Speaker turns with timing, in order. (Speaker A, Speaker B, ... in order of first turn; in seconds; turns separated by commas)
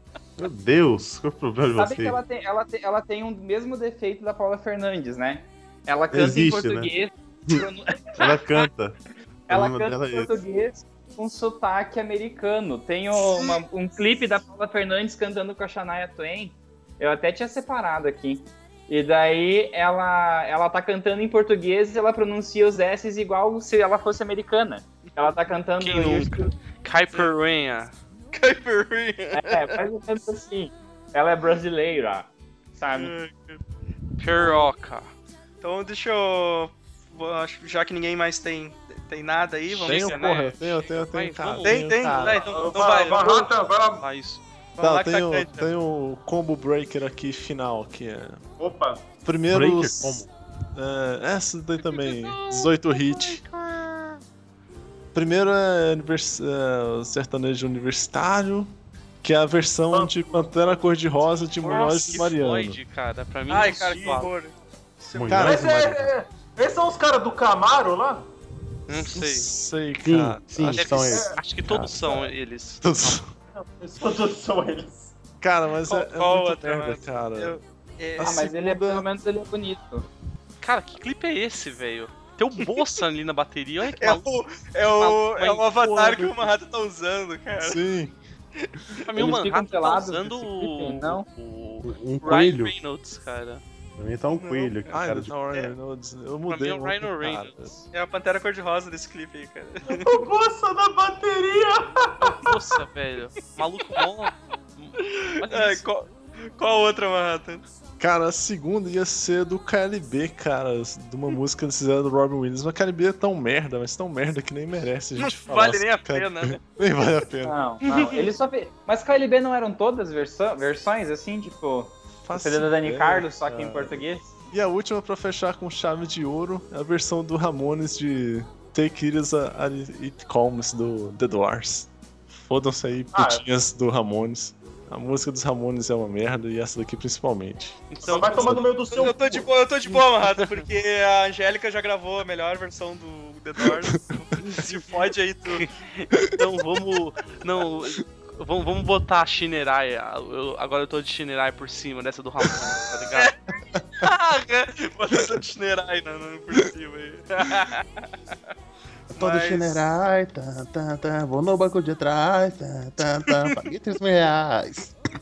Speaker A: 0.4-2.2, Speaker B: 1.8-8.6, Speaker A: 6.1-6.9, Speaker A: 8.2-9.0, Speaker A: 9.5-10.3, Speaker B: 9.5-26.5, Speaker C: 13.3-13.6, Speaker D: 25.8-27.9, Speaker C: 28.3-29.3, Speaker B: 29.3-33.1, Speaker C: 32.9-33.6, Speaker D: 34.2-35.1, Speaker C: 35.6-40.2, Speaker E: 39.7-42.5, Speaker D: 39.8-42.5, Speaker C: 41.6-43.5, Speaker F: 42.5-44.0, Speaker D: 44.0-44.4, Speaker C: 44.8-45.7, Speaker E: 44.8-48.4, Speaker F: 48.6-49.0, Speaker E: 49.2-50.2, Speaker A: 49.5-50.3, Speaker E: 50.8-53.4, Speaker D: 51.9-54.1, Speaker E: 55.1-58.7, Speaker E: 59.2-62.8, Speaker F: 59.9-60.5, Speaker D: 61.4-64.3, Speaker C: 61.6-62.2, Speaker C: 63.5-64.5, Speaker F: 65.0-68.2, Speaker A: 65.1-66.1, Speaker E: 65.3-65.7, Speaker D: 68.9-69.5, Speaker E: 68.9-71.2, Speaker A: 70.0-72.2, Speaker D: 70.7-73.2, Speaker F: 71.1-71.4, Speaker E: 72.8-73.3, Speaker F: 73.6-75.1, Speaker E: 75.4-77.6, Speaker C: 75.9-78.4, Speaker E: 78.2-79.0, Speaker B: 78.2-80.1, Speaker D: 80.6-84.4, Speaker C: 84.0-87.8, Speaker D: 85.0-85.7, Speaker E: 85.7-86.5, Speaker E: 87.6-88.2, Speaker D: 89.0-93.6, Speaker B: 89.2-91.3, Speaker A: 91.8-92.7, Speaker A: 94.0-95.4, Speaker C: 94.4-94.8, Speaker E: 94.9-97.7, Speaker D: 96.5-97.8, Speaker C: 97.9-100.1, Speaker F: 99.9-102.5, Speaker D: 102.2-105.8, Speaker C: 105.0-107.6, Speaker E: 108.0-117.6, Speaker D: 115.3-116.6, Speaker B: 117.4-124.3, Speaker E: 122.3-131.9, Speaker E: 132.4-137.8, Speaker F: 133.1-133.4, Speaker D: 137.9-138.7, Speaker F: 138.0-139.5, Speaker C: 138.2-145.7, Speaker E: 143.6-144.4, Speaker D: 144.4-144.9, Speaker D: 145.5-153.3, Speaker C: 154.0-157.8, Speaker A: 159.1-164.9, Speaker C: 159.1-159.8